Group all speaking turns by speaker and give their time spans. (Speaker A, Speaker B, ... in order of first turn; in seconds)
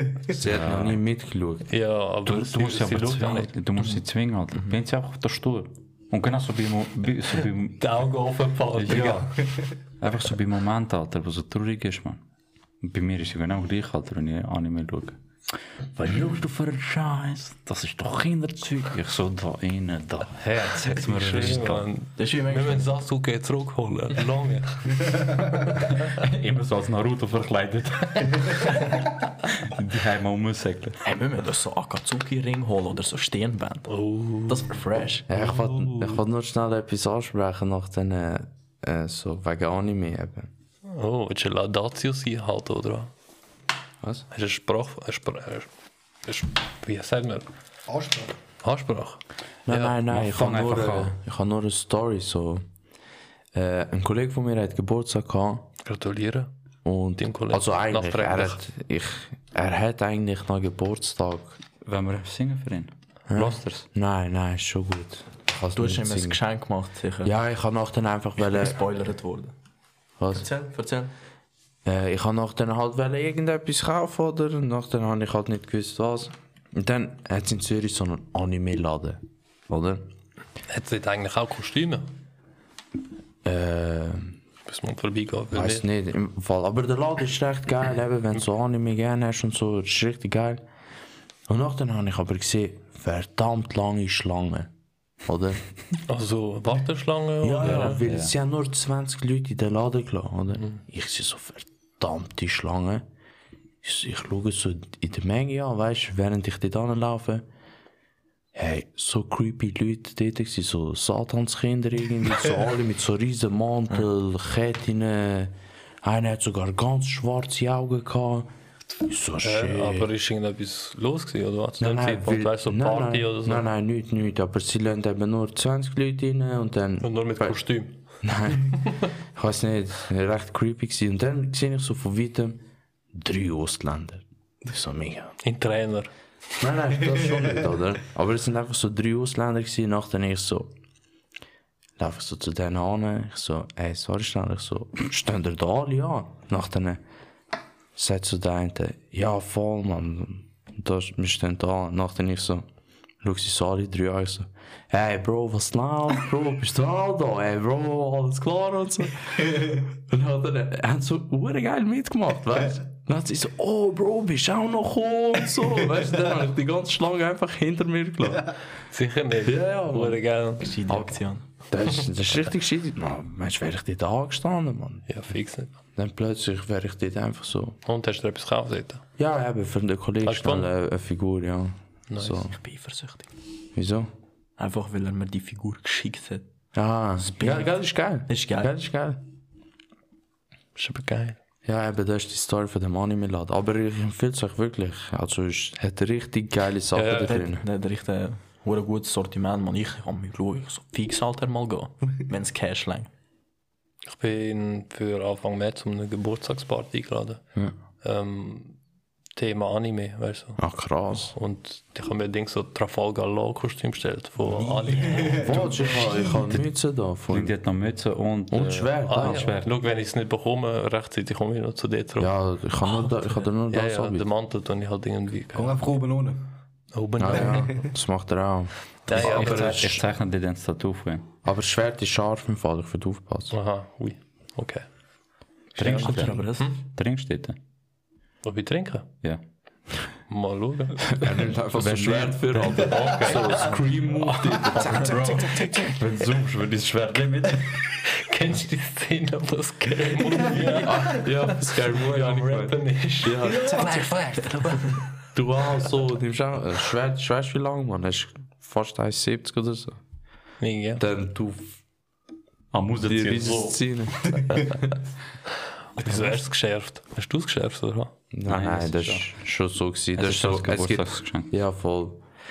Speaker A: 0.3-1.7, 35.3-40.5, 49.7-52.6, 53.5-55.7, 56.9-61.6, 63.3-66.4, 67.2-68.8, 70.2-70.5, 71.8-80.1, 83.4-84.4, 85.5-90.6, 91.5-94.7, 95.2-95.6, 97.4-103.1, 103.8-107.5, 108.5-118.5, 119.0-120.1, 121.8-127.6, 128.2-132.6, 133.1-135.3, 136.6-140.7, 142.0-147.0, 148.0-152.7, 153.2-168.6, 169.4-170.2, 170.9-171.2, 171.7-175.1, 176.0-177.8, 179.2-182.6, 183.8-184.1, 186.8-189.2, 191.7-197.7, 210.6-211.3, 215.4-217.5, 218.5-219.5, 222.2-224.2, 227.2-230.0, 231.4-233.6, 241.1-245.7, 250.8-254.1, 255.3-260.0, 261.0-261.8, 263.0-264.9, 268.3-272.2
Speaker B: 0.4-1.0, 2.3-8.0, 8.7-12.2, 12.8-15.2, 15.9-21.9, 25.6-31.0, 50.1-51.2, 61.8-63.9, 97.6-98.3, 217.3-219.7, 229.1-231.3, 235.8-237.6, 241.7-243.8, 244.6-247.8, 262.7-263.7, 268.5-269.4, 270.1-271.5
Speaker C: 1.7-3.5, 7.8-9.3, 20.4-25.4, 33.9-34.7, 35.4-36.2, 40.9-43.1, 44.3-45.7, 46.3-47.5, 48.6-50.0, 55.8-56.5, 57.2-58.6, 80.7-82.1, 84.7-85.9, 96.1-98.0, 119.4-123.7, 127.0-128.0, 135.4-136.1, 168.9-170.7, 175.1-175.7, 177.8-179.0, 180.2-180.7, 182.1-182.4, 190.8-191.4, 196.9-197.4, 204.1-207.4, 208.0-208.8, 209.4-210.6, 211.3-215.5, 219.1-222.3, 223.7-225.9, 226.9-227.9, 229.1-229.9, 233.5-234.8, 235.9-236.8, 238.4-239.1, 240.3-241.1, 242.9-243.8, 248.1-254.8, 260.6-261.0, 263.4-263.7, 265.9-268.1
Speaker D: 22.2-22.9, 31.0-33.9, 34.5-35.3, 65.7-67.3, 68.5-69.5, 70.3-71.1, 170.6-171.4, 182.5-183.3, 184.6-186.5, 187.2-187.7, 188.3-188.7, 197.3-203.1, 214.4-215.8, 222.8-223.5, 235.8-236.8, 244.9-245.9, 253.5-255.0
Speaker E: 47.9-48.3, 215.2-216.4, 225.6-226.4, 227.3-227.7